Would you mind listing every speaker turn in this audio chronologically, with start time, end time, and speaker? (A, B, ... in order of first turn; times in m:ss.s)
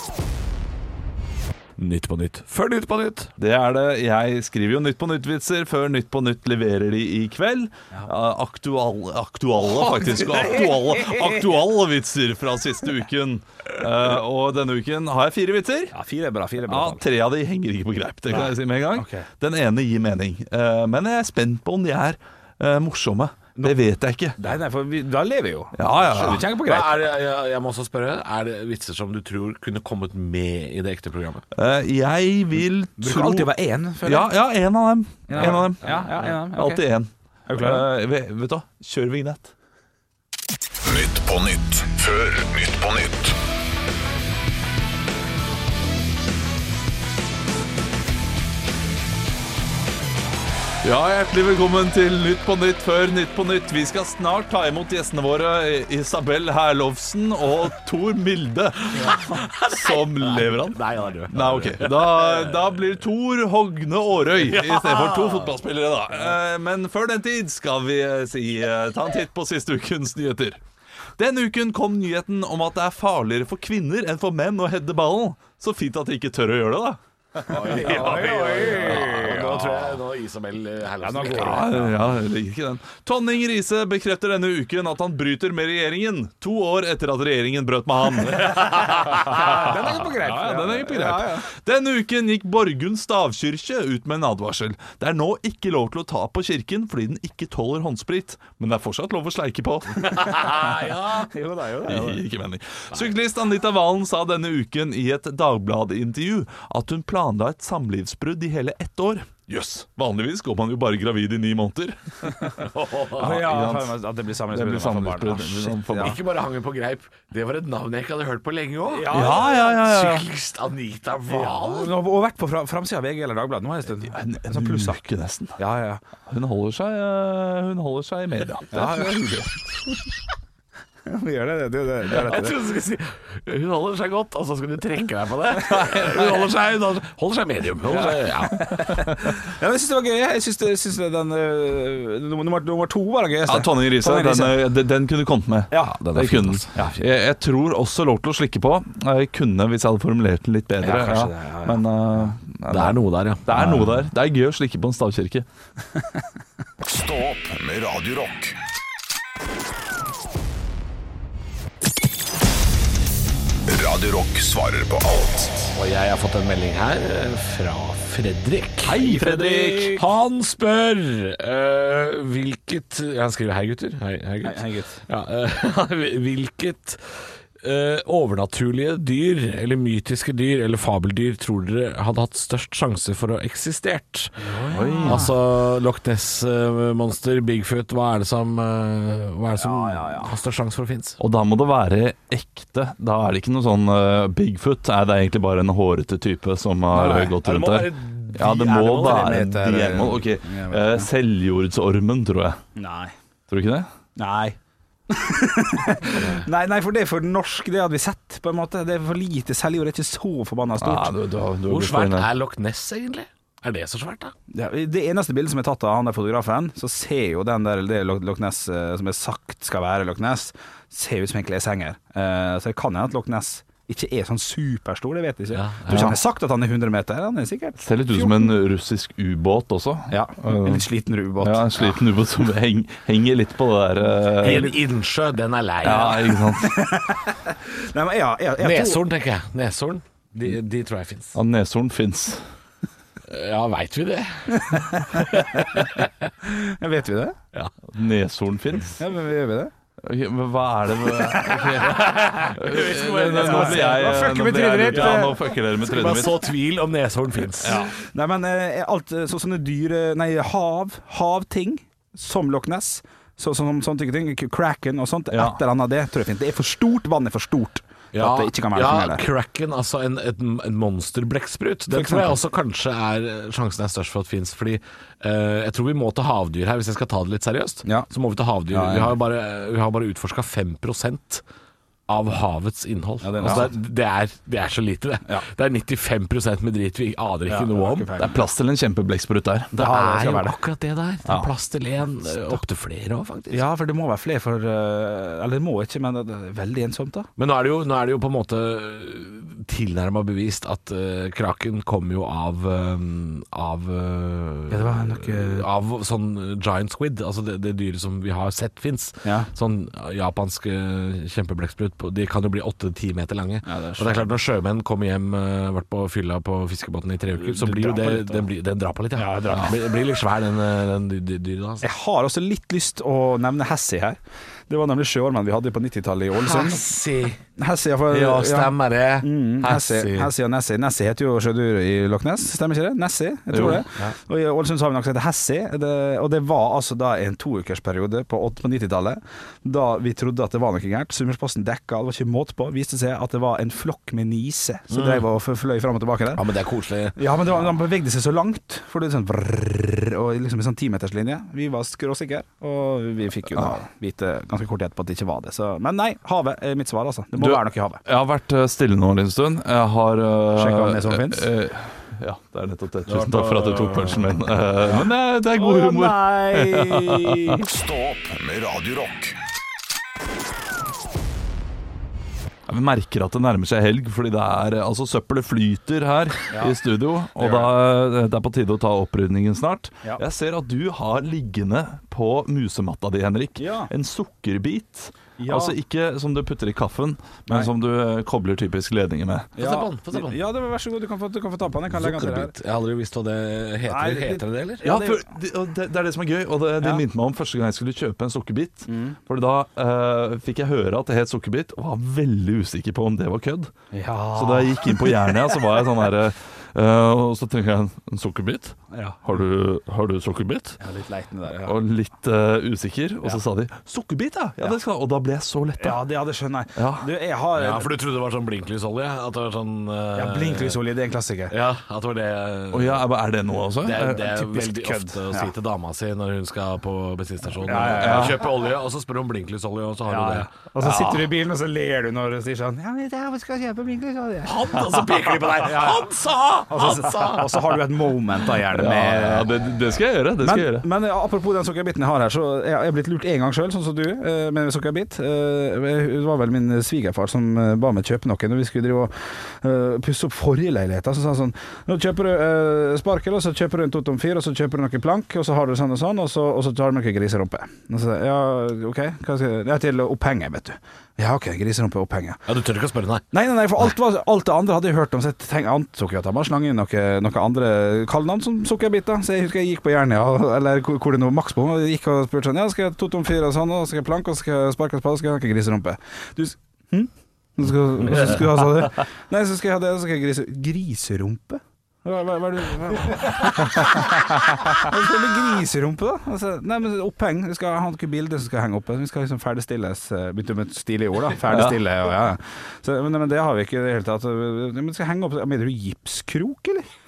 0:01.8-0:03.3 A
0:03.4-0:16.0 B
0:10.2-0:11.3 C
0:15.9-0:17.0 C
0:16.7-0:24.4 B
0:18.3-0:19.3 C
0:24.4-0:27.0 C
0:25.8-0:26.5 B
0:26.1-0:31.4 A
0:31.5-0:33.5 B
0:33.0-0:34.3 C
0:34.0-0:39.5 B
0:35.3-0:36.8 C
0:35.4-0:35.9 A
0:37.5-0:37.9 C
0:40.8-0:43.4 D
0:50.8-1:10.6 B
0:59.0-1:02.7 A
1:04.4-1:05.6 A
1:11.2-1:19.1 B
1:17.5-1:21.8 A
1:17.5-1:19.9 C
1:21.0-1:22.0 C
1:21.3-1:40.3 B
1:28.4-1:31.5 C
1:40.1-1:41.3 A
1:40.1-1:42.2 C
1:41.9-1:52.6 B
1:52.7-1:53.4 A
1:53.2-1:54.0 B
1:53.2-1:56.2 C
1:54.5-1:56.2 B
1:56.0-2:01.9 A
1:58.9-1:59.8 C
1:59.1-2:00.3 B
2:01.3-2:05.0 C
2:04.1-2:05.6 B
2:05.6-2:06.0 C
2:06.3-2:09.5 B
2:08.7-2:09.4 C
2:11.1-2:12.6 C
2:12.1-2:18.9 A
2:15.9-2:16.4 B
2:17.9-2:24.6 C
2:23.5-2:35.5 B
2:25.7-2:27.0 C
2:30.8-2:32.3 C
2:32.7-2:34.1 A
2:36.8-2:38.6 D
2:43.7-2:45.7 D
2:45.7-3:04.5 A
2:48.8-2:50.0 B
2:49.0-2:49.9 C
2:54.4-2:55.0 C
3:04.4-3:05.3 C
3:04.7-3:05.3 B
3:05.0-3:11.2 A
3:09.6-3:10.4 C
3:11.2-3:22.6 B
3:16.9-3:17.4 C
3:17.4-3:19.3 A
3:18.4-3:21.1 C
3:22.8-3:23.1 C
3:23.5-3:23.9 B
3:24.2-3:24.6 C
3:25.1-3:31.1 C
3:26.2-3:26.5 A
3:30.8-3:32.3 B
3:31.7-3:34.3 A
3:34.5-3:48.5 C
3:45.5-3:46.2 A
3:45.9-3:46.2 B
3:47.8-3:50.9 B
3:50.1-3:51.8 C
3:51.4-3:54.7 B
3:54.4-3:56.4 A
3:54.4-3:54.8 C
3:55.8-3:56.8 B
3:56.6-3:59.0 C
3:58.6-4:01.4 A
4:01.3-4:02.4 B
4:03.2-4:06.3 A
4:04.5-4:05.8 C
4:06.4-4:07.4 C
4:07.9-4:09.0 B
4:09.0-4:09.7 C
4:10.0-4:16.4 B
4:11.1-4:12.6 C
4:11.8-4:14.3 A
4:13.3-4:15.4 C
4:14.9-4:17.9 A
4:17.6-4:17.9 B
4:17.7-4:29.2 C
4:25.3-4:25.6 B
4:28.1-4:41.4 A
4:31.9-4:32.4 C
4:38.7-4:39.2 C
4:42.1-4:48.2 A
4:43.2-4:43.7 C
4:47.5-4:48.3 C
4:48.2-4:49.8 B
4:49.7-4:53.7 A
4:49.8-4:50.6 C
4:53.5-4:57.3 C
4:57.4-5:21.9 A
5:04.7-5:05.7 C
5:09.2-5:09.5 C
5:13.6-5:14.3 C
5:17.4-5:18.4 C
5:19.2-5:19.8 C
5:21.8-5:26.9 C
5:26.4-5:27.4 A
5:27.6-5:46.4 C
5:28.1-5:30.3 A
5:33.5-5:33.8 B
5:44.9-5:45.2 A
5:46.4-5:47.2 A
5:47.2-5:58.0 C
5:57.4-6:07.6 B
6:00.6-6:01.5 C
6:03.1-6:04.4 A
6:04.8-6:07.6 C
6:07.7-6:09.4 D
6:12.7-6:29.5 B
6:16.5-6:16.8 C
6:17.4-6:17.7 C
6:23.6-6:23.9 C
6:25.4-6:25.8 C
6:29.6-6:30.4 A
6:29.6-6:32.5 C
6:31.9-6:34.8 A
6:33.9-6:35.2 C
6:34.8-6:43.7 B
6:38.9-6:39.2 C
6:43.9-6:45.5 C
6:44.4-6:50.8 B
6:48.9-6:49.2 C
6:50.8-6:51.8 C
6:51.6-6:56.0 B
6:55.8-6:57.9 C
6:56.8-6:57.1 B
6:57.6-7:00.8 A
7:00.2-7:01.5 C
7:01.5-7:03.1 A
7:02.7-7:04.3 B
7:03.8-7:10.5 A
7:04.2-7:05.5 C
7:07.6-7:08.4 C
7:07.9-7:08.4 B
7:10.1-7:14.7 C
7:10.8-7:11.3 B
7:14.4-7:17.8 A
7:15.5-7:16.1 C
7:16.7-7:19.5 C
7:18.7-7:20.9 B
7:20.4-7:42.4 C
7:42.5-7:43.3 A
7:43.3-8:16.9 C
8:11.5-8:11.8 B